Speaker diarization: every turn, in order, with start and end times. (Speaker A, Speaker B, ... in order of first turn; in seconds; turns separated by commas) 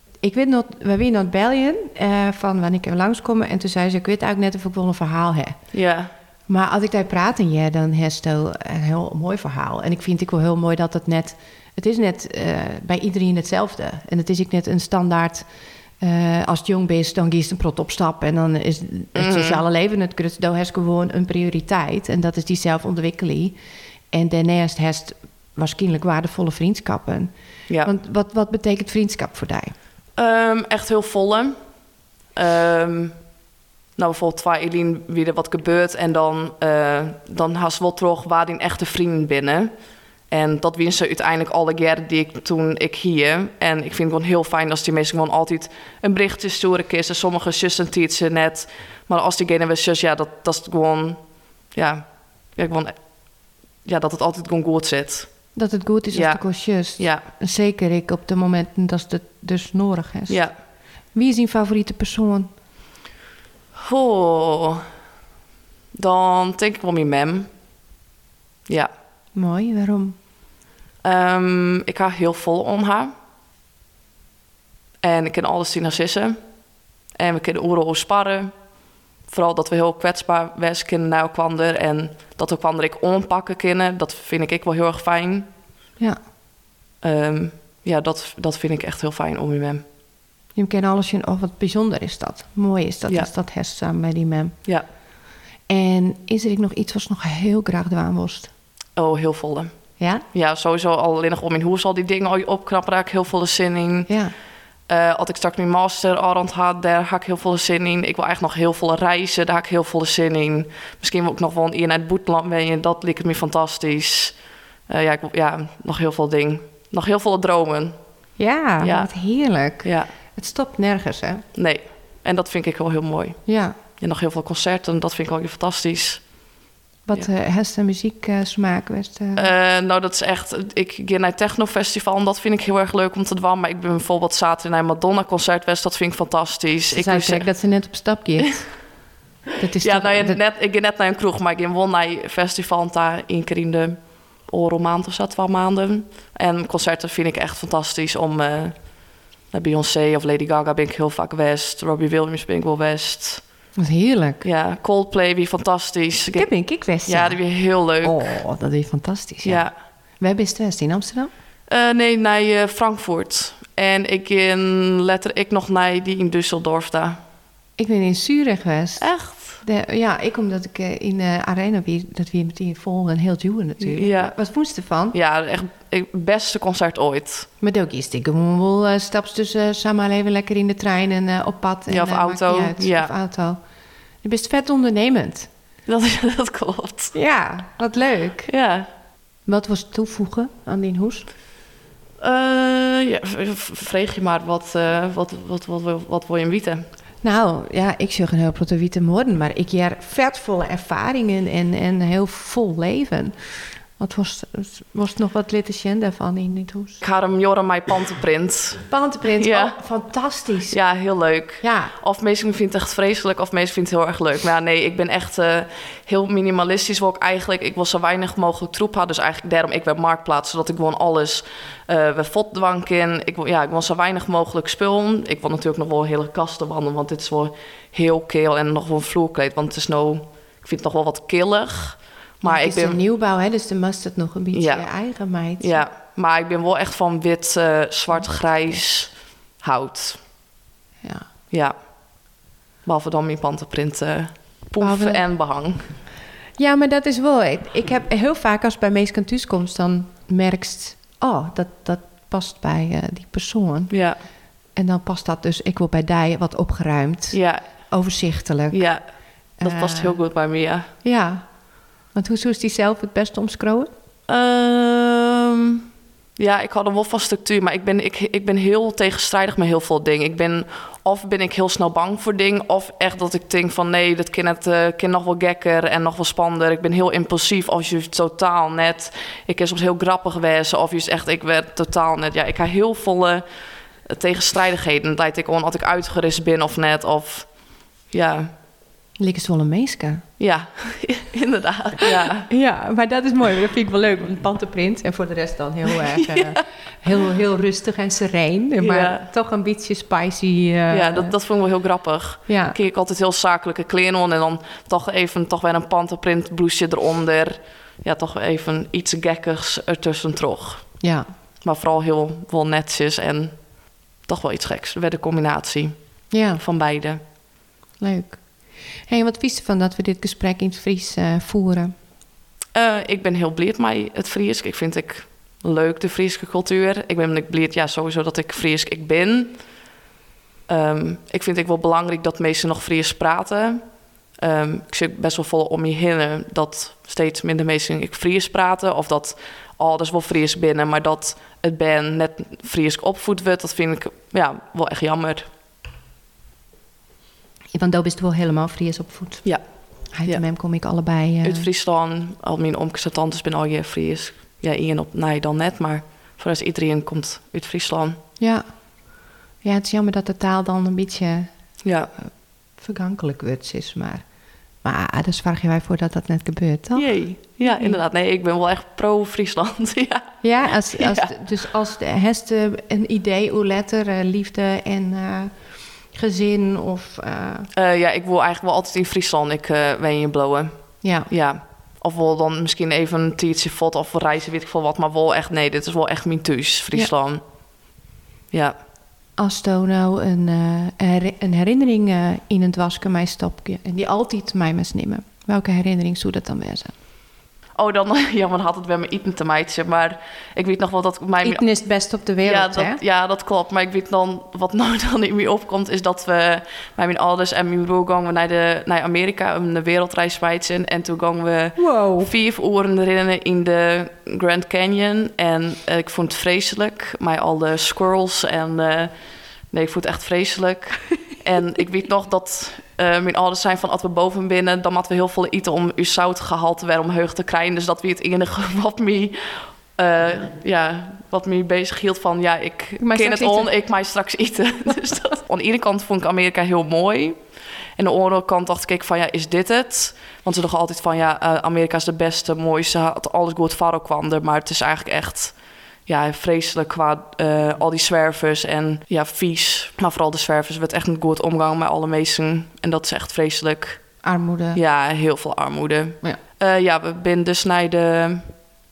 Speaker A: 0.2-5.6, Speaker B: 5.7-6.1, Speaker A: 6.5-15.4, Speaker A: 16.0-23.6, Speaker B: 19.1-19.6, Speaker A: 24.1-29.7, Speaker B: 30.2-31.6, Speaker B: 32.3-33.1, Speaker B: 34.0-39.7, Speaker B: 40.3-51.2, Speaker B: 51.7-53.0, Speaker B: 53.8-55.3, Speaker A: 55.5-60.4, Speaker B: 56.1-56.4, Speaker B: 57.0-57.2, Speaker A: 61.1-62.5, Speaker B: 63.8-64.8, Speaker B: 65.9-67.5, Speaker A: 69.3-70.2, Speaker B: 71.0-73.1, Speaker B: 75.0-76.4, Speaker B: 77.1-78.5, Speaker B: 79.3-85.5, Speaker B: 87.0-89.8, Speaker A: 90.5-94.5, Speaker A: 95.7-98.5, Speaker B: 99.0-99.7, Speaker B: 100.3-104.1, Speaker A: 104.1-104.3, Speaker B: 104.9-114.3, Speaker B: 114.9-118.0, Speaker A: 118.4-121.4, Speaker B: 118.8-119.1, Speaker B: 119.8-120.1, Speaker B: 121.5-126.2, Speaker A: 123.5-123.8, Speaker A: 127.1-129.5, Speaker B: 129.3-137.5, Speaker A: 136.9-138.8, Speaker A: 139.6-140.4, Speaker B: 139.8-153.4, Speaker A: 153.8-154.4, Speaker B: 154.4-156.5, Speaker A: 156.3-157.4, Speaker B: 157.0-158.4, Speaker A: 158.0-159.7, Speaker B: 159.4-159.7, Speaker A: 160.2-161.3, Speaker B: 161.7-167.2, Speaker A: 167.8-169.1, Speaker B: 169.0-169.6, Speaker A: 169.6-175.2, Speaker B: 173.8-174.3, Speaker B: 175.1-177.5, Speaker A: 177.6-183.6, Speaker B: 181.9-183.1, Speaker A: 184.2-185.5, Speaker B: 185.9-187.1, Speaker A: 187.1-188.5, Speaker B: 188.4-188.9, Speaker A: 189.4-191.3, Speaker B: 192.2-196.8, Speaker A: 197.2-207.0, Speaker B: 207.0-209.8, Speaker A: 208.9-210.8, Speaker B: 210.7-233.0, Speaker A: 211.6-211.9, Speaker A: 232.4-235.8, Speaker B: 234.5-234.9, Speaker B: 235.6-240.2, Speaker A: 241.0-241.3, Speaker B: 242.8-245.9, Speaker A: 244.8-245.2, Speaker A: 246.6-253.9, Speaker B: 253.9-254.2, Speaker A: 254.8-258.9, Speaker B: 257.3-257.6, Speaker B: 258.7-259.0, Speaker A: 259.6-260.2, Speaker B: 259.6-260.9, Speaker A: 261.0-261.5, Speaker A: 262.0-263.9, Speaker B: 264.3-265.8, Speaker B: 266.4-283.4, Speaker B: 284.1-287.6, Speaker B: 288.1-288.5, Speaker A: 289.2-290.2, Speaker B: 290.4-292.5, Speaker A: 292.5-301.3, Speaker B: 296.1-296.6, Speaker B: 298.8-299.3, Speaker B: 300.9-310.9, Speaker A: 302.5-302.8, Speaker A: 311.0-311.3, Speaker B: 311.6-313.6, Speaker B: 314.2-317.2, Speaker A: 316.3-316.6, Speaker A: 318.0-321.9, Speaker B: 322.7-329.6, Speaker B: 330.7-333.8, Speaker B: 334.4-345.5, Speaker A: 347.7-349.4, Speaker A: 350.1-351.6, Speaker B: 351.4-358.2, Speaker A: 358.4-358.7, Speaker A: 359.6-361.5, Speaker B: 361.8-362.1, Speaker A: 362.8-364.2, Speaker A: 364.8-368.0, Speaker B: 366.9-370.4, Speaker A: 370.4-377.7, Speaker B: 370.9-371.3, Speaker B: 377.7-380.7, Speaker A: 381.0-381.3, Speaker B: 381.3-387.4, Speaker A: 389.4-396.9, Speaker B: 397.7-401.6, Speaker A: 401.4-403.0, Speaker B: 402.4-419.1, Speaker A: 411.8-412.3, Speaker B: 419.7-429.4, Speaker B: 430.0-437.4, Speaker A: 433.0-433.7, Speaker B: 438.0-445.5, Speaker B: 446.1-454.1, Speaker A: 454.2-454.8, Speaker B: 454.7-458.5